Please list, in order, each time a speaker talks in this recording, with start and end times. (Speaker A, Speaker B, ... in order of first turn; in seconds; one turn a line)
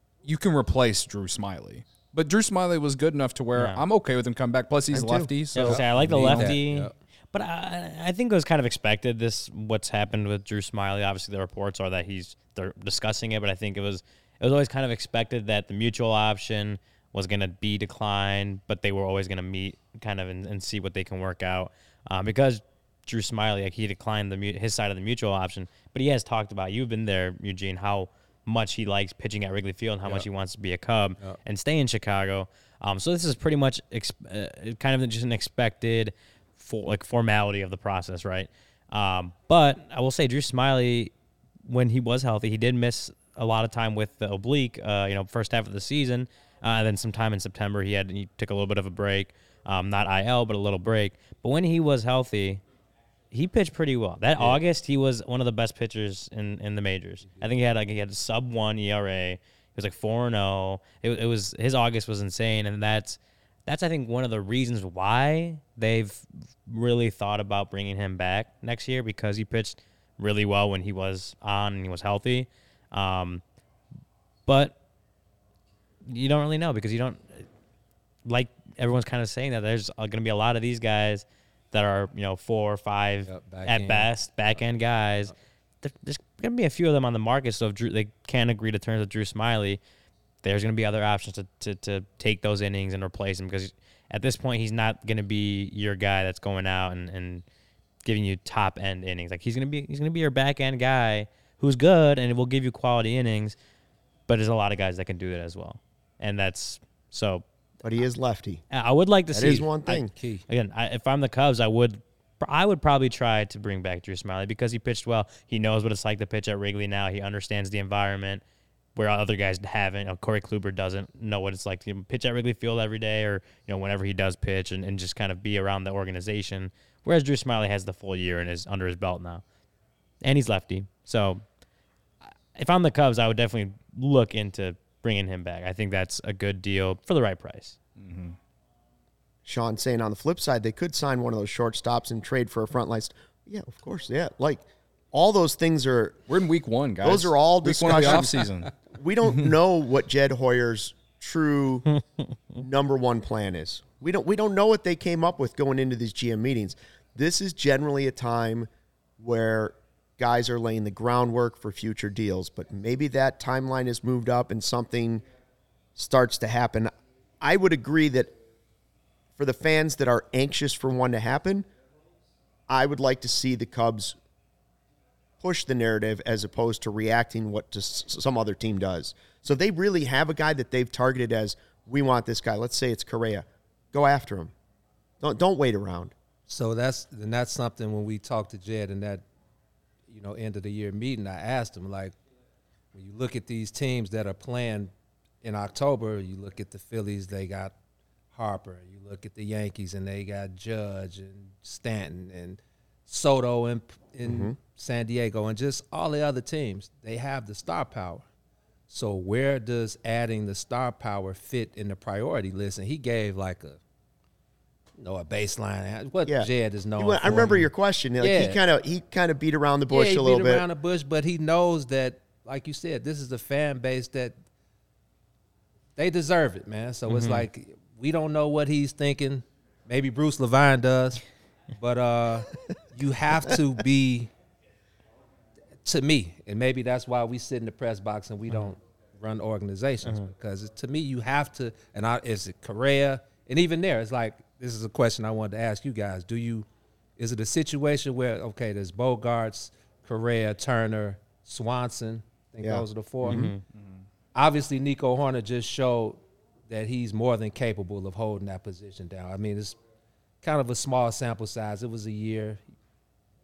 Speaker A: 0.2-6.5
Speaker B: 3.5-3.8
Speaker C: 4.9-5.3
Speaker B: 5.5-41.1
Speaker D: 5.7-6.9
Speaker B: 41.7-52.6
Speaker B: 53.3-73.4
Speaker B: 74.5-74.8
Speaker B: 76.0-77.5
Speaker B: 78.3-89.8
Speaker D: 83.3-84.1
Speaker B: 90.4-97.4
Speaker B: 98.0-103.6
Speaker B: 104.3-107.4
Speaker C: 107.8-108.6
Speaker B: 108.7-118.4
Speaker C: 109.3-110.1
Speaker D: 110.0-110.5
Speaker B: 119.0-129.4
Speaker B: 130.2-131.4
Speaker B: 132.5-137.8
Speaker A: 138.0-138.4
Speaker C: 139.4-146.2
Speaker A: 146.3-148.7
Speaker C: 147.0-151.9
Speaker D: 147.9-148.4
Speaker C: 152.6-165.2
Speaker C: 166.0-168.3
Speaker C: 169.4-171.7
Speaker C: 172.7-174.2
Speaker C: 175.4-184.5
Speaker C: 185.2-186.1
Speaker D: 186.5-189.2
Speaker D: 190.1-192.2
Speaker D: 192.9-197.8
Speaker D: 198.3-208.3
Speaker C: 204.2-204.6
Speaker D: 208.9-213.8
Speaker D: 215.0-217.7
Speaker C: 216.3-220.7
Speaker D: 218.2-218.6
Speaker D: 219.9-224.3
Speaker D: 226.0-234.3
Speaker B: 227.1-227.4
Speaker D: 235.8-246.7
Speaker D: 247.2-253.5
Speaker C: 252.6-253.5
Speaker B: 253.2-253.6
Speaker A: 253.8-254.0
Speaker D: 254.3-259.8
Speaker D: 260.4-262.6